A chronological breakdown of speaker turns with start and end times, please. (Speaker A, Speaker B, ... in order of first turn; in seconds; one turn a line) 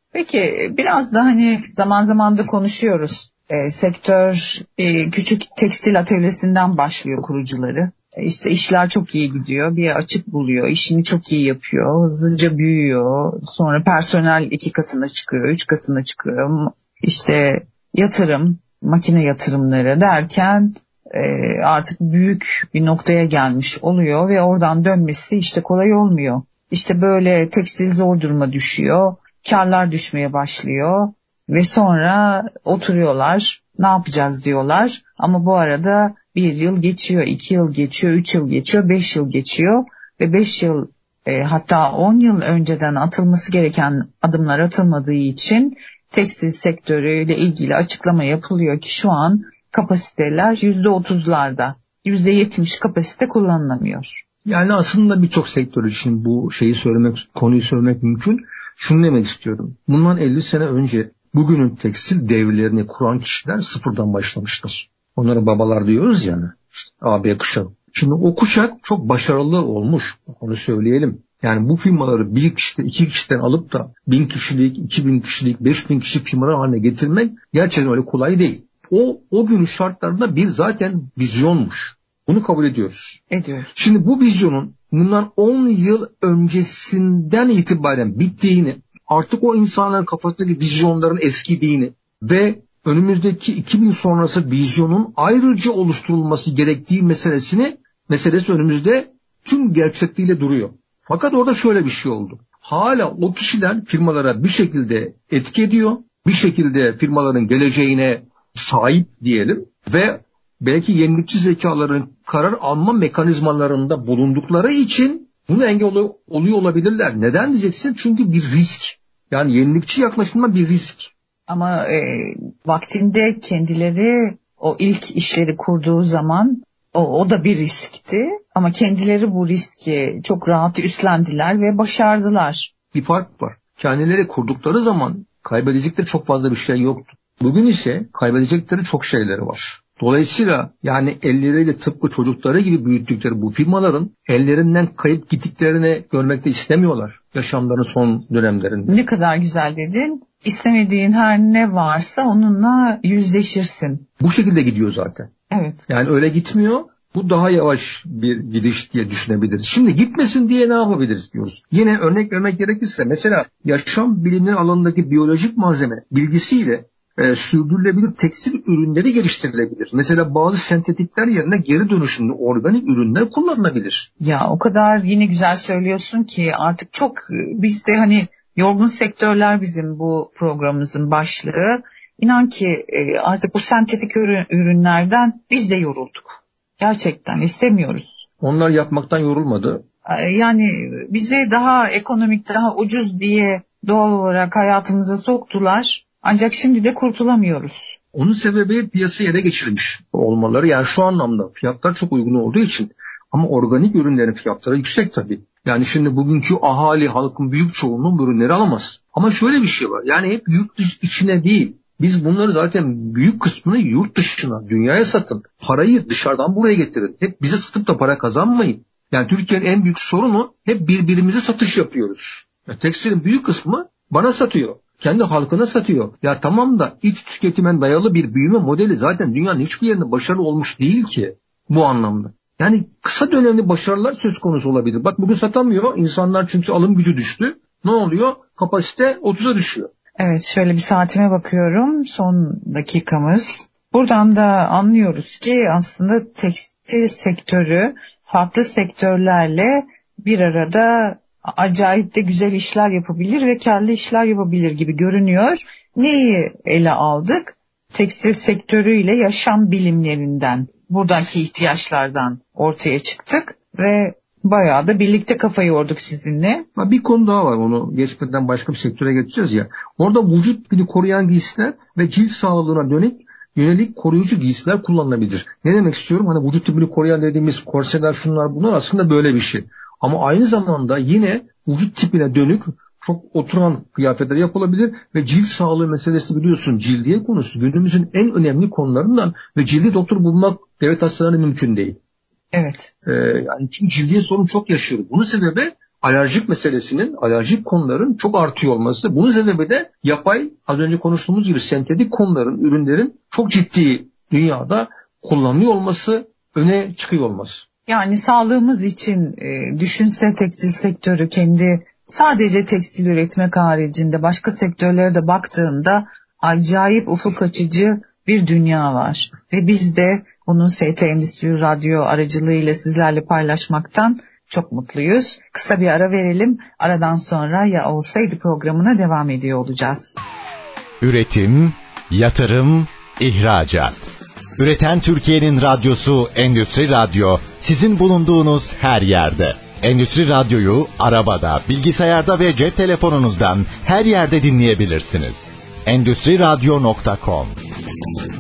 Speaker A: 0.1-54.2
Speaker B: 54.5-83.2
Speaker A: 83.3-83.7
Speaker B: 83.7-121.1
Speaker A: 121.5-132.7
Speaker B: 132.9-149.0
Speaker A: 148.9-154.1
Speaker B: 154.2-155.3
Speaker A: 155.5-155.8
Speaker B: 155.9-174.1
Speaker A: 174.2-188.1
Speaker B: 188.4-189.8
Speaker A: 190.1-197.9
Speaker B: 198.1-239.9
Speaker A: 240.2-266.7
Speaker B: 266.8-292.0
Speaker A: 292.5-292.9
Speaker B: 293.0-307.6
Speaker A: 307.9-330.1
Speaker C: 331.0-347.6